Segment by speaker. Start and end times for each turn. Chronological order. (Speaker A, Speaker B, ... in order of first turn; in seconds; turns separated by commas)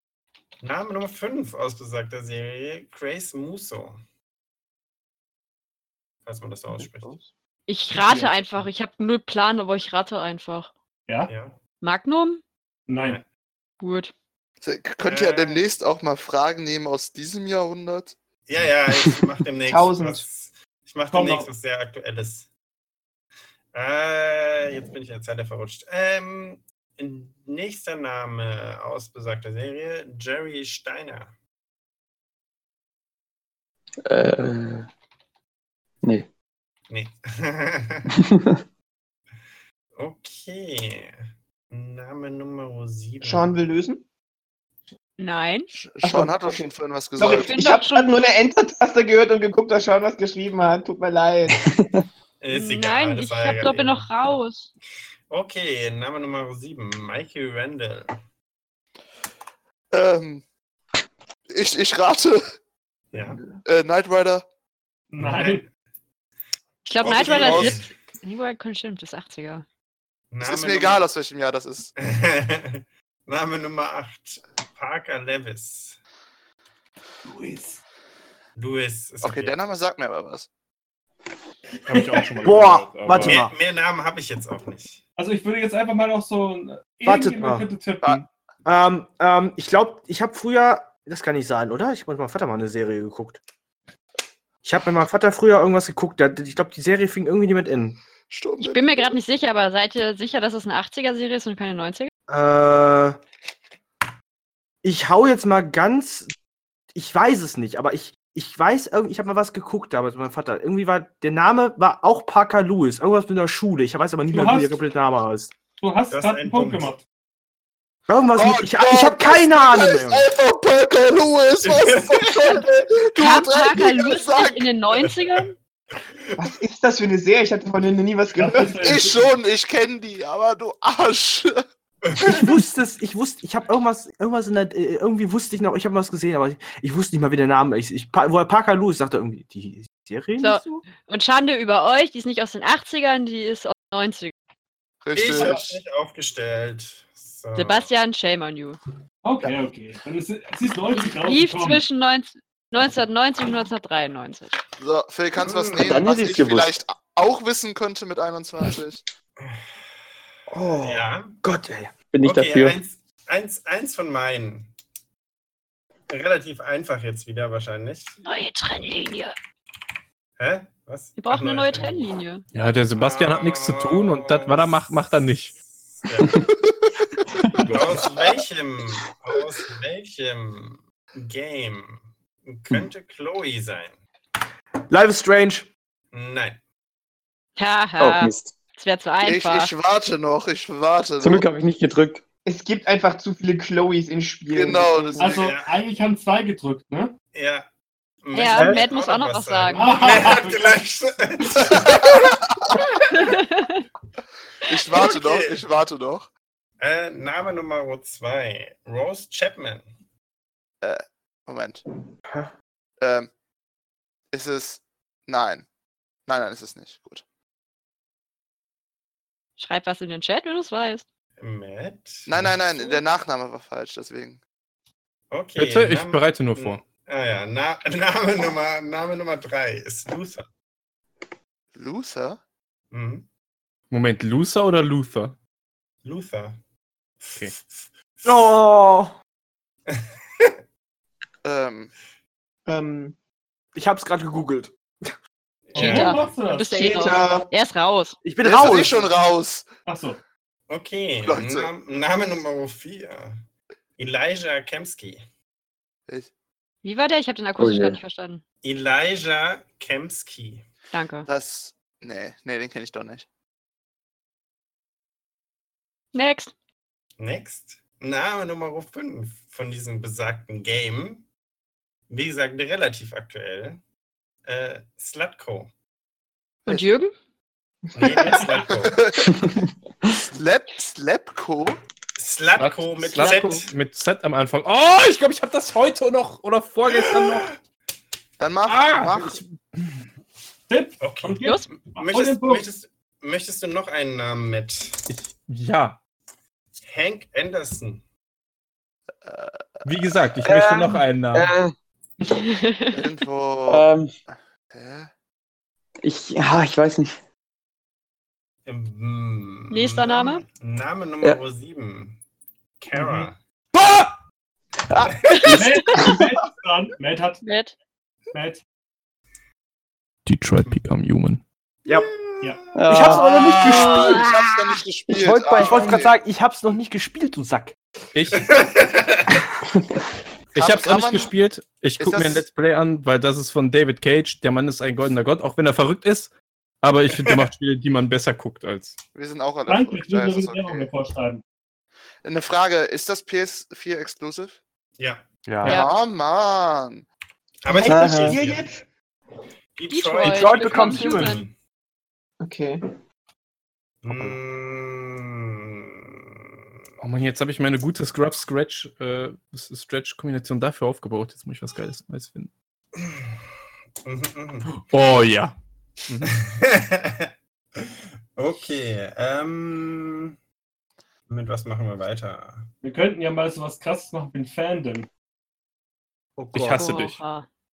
Speaker A: 0.6-4.0, Speaker A: 6.2-7.1, Speaker B: 6.8-7.3, Speaker C: 7.7-10.7, Speaker D: 7.9-8.3, Speaker A: 11.3-11.6, Speaker C: 11.8-12.4, Speaker D: 12.9-13.2, Speaker C: 13.8-14.1, Speaker E: 14.6-18.2, Speaker A: 15.0-15.7, Speaker A: 18.4-22.5, Speaker B: 19.7-20.2, Speaker D: 21.1-21.5, Speaker A: 23.7-31.3, Speaker F: 34.0-34.9, Speaker F: 36.0-36.3, Speaker A: 36.9-38.2, Speaker A: 40.0-41.2, Speaker A: 41.7-43.6, Speaker B: 43.2-44.0, Speaker C: 45.2-45.7, Speaker E: 45.7-47.6, Speaker B: 46.0-51.7, Speaker C: 47.2-48.1, Speaker A: 52.4-54.1, Speaker C: 52.5-54.7, Speaker A: 55.3-58.1, Speaker E: 59.9-60.4, Speaker E: 61.5-62.4, Speaker A: 63.1-63.5, Speaker E: 63.6-64.4, Speaker D: 65.1-65.6, Speaker A: 65.2-65.6, Speaker C: 66.8-69.6, Speaker A: 67.0-67.9, Speaker E: 67.0-67.8, Speaker A: 70.3-71.0, Speaker E: 70.4-71.9, Speaker A: 72.0-76.0, Speaker D: 77.2-77.8, Speaker A: 78.5-79.6, Speaker E: 79.2-80.5, Speaker D: 81.9-82.5, Speaker G: 81.9-83.4, Speaker H: 82.4-83.5, Speaker A: 83.1-85.0, Speaker D: 85.2-88.2, Speaker H: 87.0-87.7, Speaker H: 88.6-93.4, Speaker H: 94.6-98.0, Speaker E: 98.3-99.2, Speaker C: 98.6-102.1, Speaker H: 102.3-103.2, Speaker H: 104.8-106.3, Speaker H: 106.9-115.5, Speaker D: 114.3-114.8, Speaker D: 115.8-117.0, Speaker A: 116.1-116.9, Speaker H: 118.1-120.3, Speaker E: 118.3-124.7, Speaker A: 121.6-122.7, Speaker C: 123.2-125.5, Speaker B: 126.4-128.9, Speaker D: 128.3-129.3, Speaker E: 128.8-131.6, Speaker H: 132.2-140.8, Speaker C: 140.4-144.3, Speaker E: 145.0-145.6, Speaker A: 145.1-147.9, Speaker C: 147.6-148.8, Speaker D: 149.2-151.8, Speaker C: 151.0-154.6, Speaker E: 154.8-159.0, Speaker A: 155.4-155.9, Speaker F: 155.8-156.7, Speaker F: 160.5-162.8, Speaker A: 160.8-161.4, Speaker A: 162.2-164.7, Speaker A: 166.1-168.2, Speaker C: 168.2-169.3, Speaker A: 170.4-172.1, Speaker C: 171.2-172.4, Speaker G: 172.5-175.5, Speaker A: 172.9-176.5, Speaker G: 177.6-178.0, Speaker A: 177.7-184.0, Speaker H: 184.9-185.7, Speaker A: 186.1-186.6, Speaker C: 187.6-189.7, Speaker F: 188.0-188.5, Speaker E: 189.2-191.5, Speaker F: 191.2-192.2, Speaker B: 192.4-195.4, Speaker E: 194.5-195.4, Speaker D: 195.2-197.1, Speaker A: 195.2-195.8, Speaker A: 197.3-197.7, Speaker A: 198.2-202.4, Speaker C: 198.3-200.2, Speaker D: 199.7-200.8, Speaker C: 203.1-203.8, Speaker E: 204.7-206.3, Speaker A: 204.9-205.6, Speaker A: 206.8-209.8, Speaker E: 210.8-211.8, Speaker E: 213.0-213.3, Speaker E: 214.3-215.7, Speaker E: 216.3-217.2, Speaker C: 219.6-221.0, Speaker A: 221.4-222.6, Speaker E: 222.3-224.4, Speaker A: 225.3-230.5, Speaker G: 225.6-226.8, Speaker E: 231.7-232.4, Speaker A: 232.9-233.3, Speaker G: 233.9-235.3, Speaker A: 236.0-236.6, Speaker A: 237.2-238.5, Speaker H: 238.2-239.1, Speaker A: 239.9-240.6, Speaker E: 241.4-241.9, Speaker B: 242.7-243.1, Speaker H: 243.7-245.1, Speaker A: 245.7-246.4, Speaker D: 245.7-247.1, Speaker C: 245.8-248.2, Speaker B: 246.7-247.5, Speaker H: 248.2-249.1, Speaker E: 248.4-249.7, Speaker D: 249.8-250.2, Speaker A: 250.7-253.4, Speaker E: 251.2-251.7, Speaker A: 254.0-255.2, Speaker C: 256.8-258.4, Speaker F: 257.6-258.0, Speaker A: 258.6-260.6, Speaker C: 260.9-261.3, Speaker E: 261.3-263.2, Speaker C: 266.1-266.5, Speaker A: 267.2-271.2, Speaker A: 272.1-273.8, Speaker A: 274.4-275.7, Speaker C: 276.6-277.1, Speaker B: 277.9-278.5, Speaker A: 277.9-279.0, Speaker E: 278.7-279.4, Speaker F: 279.2-279.6, Speaker E: 280.3-281.8, Speaker A: 282.2-283.7, Speaker G: 282.6-287.5, Speaker A: 286.9-287.5, Speaker E: 288.4-289.4, Speaker G: 288.6-289.4, Speaker D: 290.7-292.6, Speaker A: 291.0-295.0, Speaker C: 291.4-291.7, Speaker G: 295.1-296.0, Speaker A: 296.8-298.0, Speaker E: 299.2-299.6, Speaker G: 299.8-301.5, Speaker F: 300.4-301.7, Speaker C: 302.3-302.9, Speaker E: 302.9-303.9, Speaker F: 303.7-304.1, Speaker E: 304.7-305.1, Speaker F: 306.0-307.1, Speaker A: 308.6-312.2, Speaker C: 309.7-310.4, Speaker A: 312.8-313.4, Speaker D: 312.9-313.3, Speaker C: 315.3-316.0, Speaker D: 315.5-317.4, Speaker F: 315.9-316.2, Speaker C: 317.4-317.7, Speaker D: 318.3-318.6, Speaker G: 320.2-321.4, Speaker A: 321.9-323.1, Speaker F: 322.7-324.2, Speaker H: 322.9-324.2, Speaker E: 323.5-326.1, Speaker C: 323.9-324.5, Speaker F: 325.1-326.0, Speaker H: 325.2-327.7, Speaker G: 328.1-328.5, Speaker A: 328.3-329.4, Speaker G: 330.5-339.0, Speaker E: 330.5-331.3, Speaker E: 332.0-332.5, Speaker A: 337.1-337.5, Speaker E: 339.1-340.9, Speaker D: 339.7-341.4, Speaker E: 342.2-344.6, Speaker A: 345.0-345.2, Speaker H: 345.5-345.7, Speaker E: 345.6-347.1, Speaker C: 345.6-345.9, Speaker A: 347.6-348.8, Speaker B: 347.7-348.7, Speaker F: 347.8-348.4, Speaker A: 349.8-351.5, Speaker C: 349.9-351.4, Speaker H: 350.2-351.4, Speaker B: 352.4-352.8, Speaker A: 354.0-356.3, Speaker G: 357.0-362.5, Speaker A: 362.9-363.3, Speaker A: 364.0-364.8, Speaker G: 364.6-365.6, Speaker G: 366.1-366.3, Speaker A: 366.2-370.3, Speaker A: 371.3-372.7, Speaker D: 372.8-375.1, Speaker H: 376.4-376.9, Speaker G: 376.5-377.2, Speaker C: 376.7-377.4